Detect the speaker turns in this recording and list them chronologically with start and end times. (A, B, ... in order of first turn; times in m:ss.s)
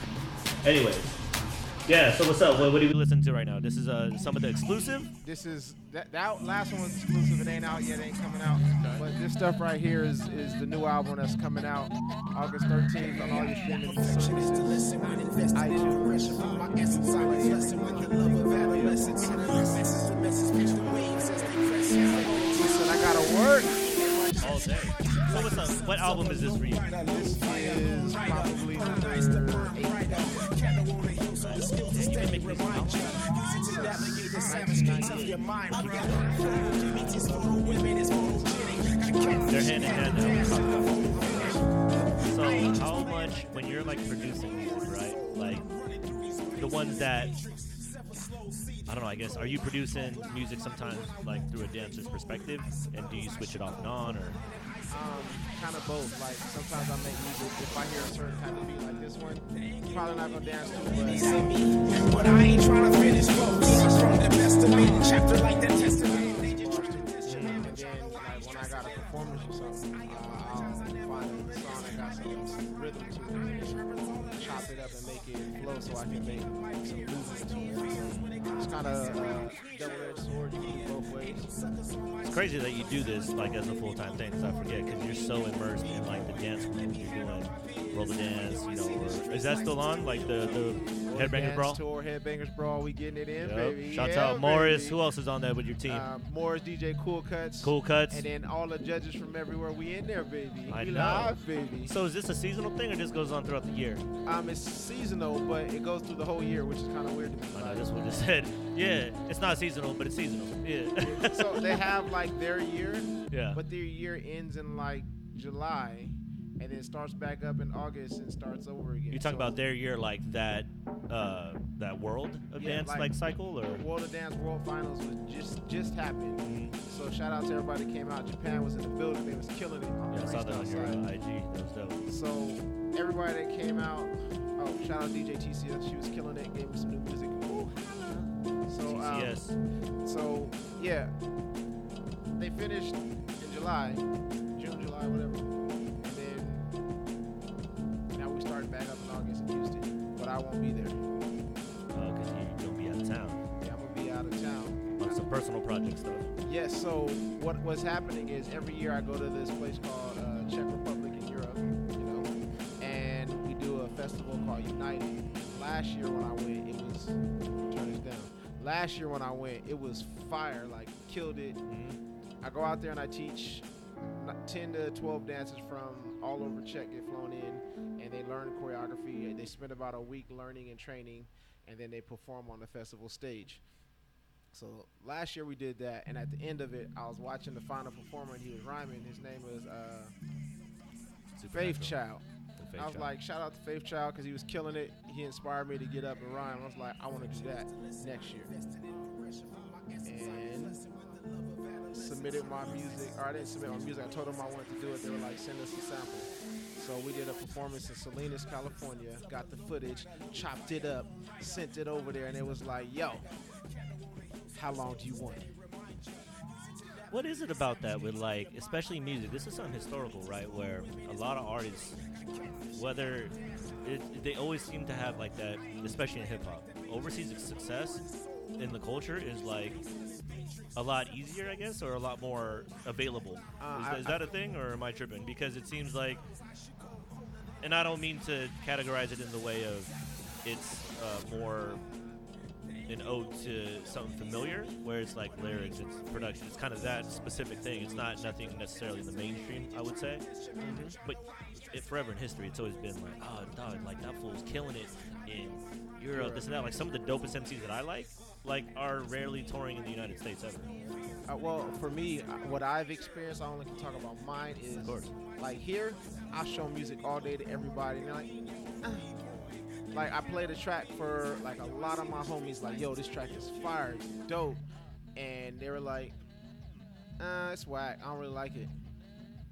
0:00.6-0:01.1 A
0:01.9-0:05.1 A
0:05.2-0:14.9 B
0:08.7-0:09.0 A
0:13.9-0:22.9 C
0:15.5-0:19.7 B
0:22.0-0:23.8 B
0:23.8-0:41.3 C
0:24.4-0:27.0 A
0:27.1-0:30.4 B
0:31.4-0:33.3 A
0:33.6-0:35.5 B
0:35.7-0:36.4 A
0:36.2-0:39.4 B
0:39.5-0:41.6 A
0:42.1-0:45.7 A
0:46.6-0:47.4 A
0:48.8-0:54.4 A
0:54.9-1:01.6 B
1:01.0-1:06.6 C
1:05.9-1:21.5 B
1:07.2-1:07.7 A
1:18.0-1:18.4 A
1:22.2-1:31.8 A
1:31.0-1:35.0 B
1:33.4-1:36.1 A
1:35.9-1:41.9 B
1:37.6-1:38.2 A
1:40.7-1:44.0 A
1:44.2-1:48.2 B
1:47.5-1:51.8 A
1:51.0-1:59.5 B
1:53.3-1:53.6 A
1:59.1-2:03.8 A
2:02.6-2:03.1 B
2:03.7-2:11.0 B
2:06.4-2:06.7 A
2:10.1-2:12.0 A
2:12.1-2:19.4 B
2:18.8-2:19.6 A
2:20.0-2:21.1 B
2:22.4-2:26.7 B
2:28.1-2:31.0 B
2:31.9-2:33.4 A
2:33.6-2:35.3 B
2:35.0-2:36.3 A
2:36.4-2:47.2 B
2:47.7-2:51.6 B
2:51.7-2:52.0 A
2:52.4-3:03.6 B
3:04.5-3:10.1 B
3:11.4-3:12.0 A
3:11.5-3:12.2 B
3:12.6-3:13.1 A
3:12.8-3:18.5 B
3:20.0-3:20.8 B
3:21.8-3:33.2 B
3:34.5-3:35.5 B
3:37.1-3:42.0 A
3:42.7-3:49.8 A
3:50.8-3:56.2 A
3:53.6-3:54.2 B
3:57.6-3:59.9 A
4:00.4-4:01.8 A
4:02.9-4:10.2 A
4:10.6-4:11.0 B
4:11.0-4:20.7 A
4:16.1-4:16.5 B
4:21.2-4:29.1 B
4:24.8-4:25.1 A
4:29.9-4:34.6 B
4:35.2-4:36.2 B
4:37.2-4:38.7 B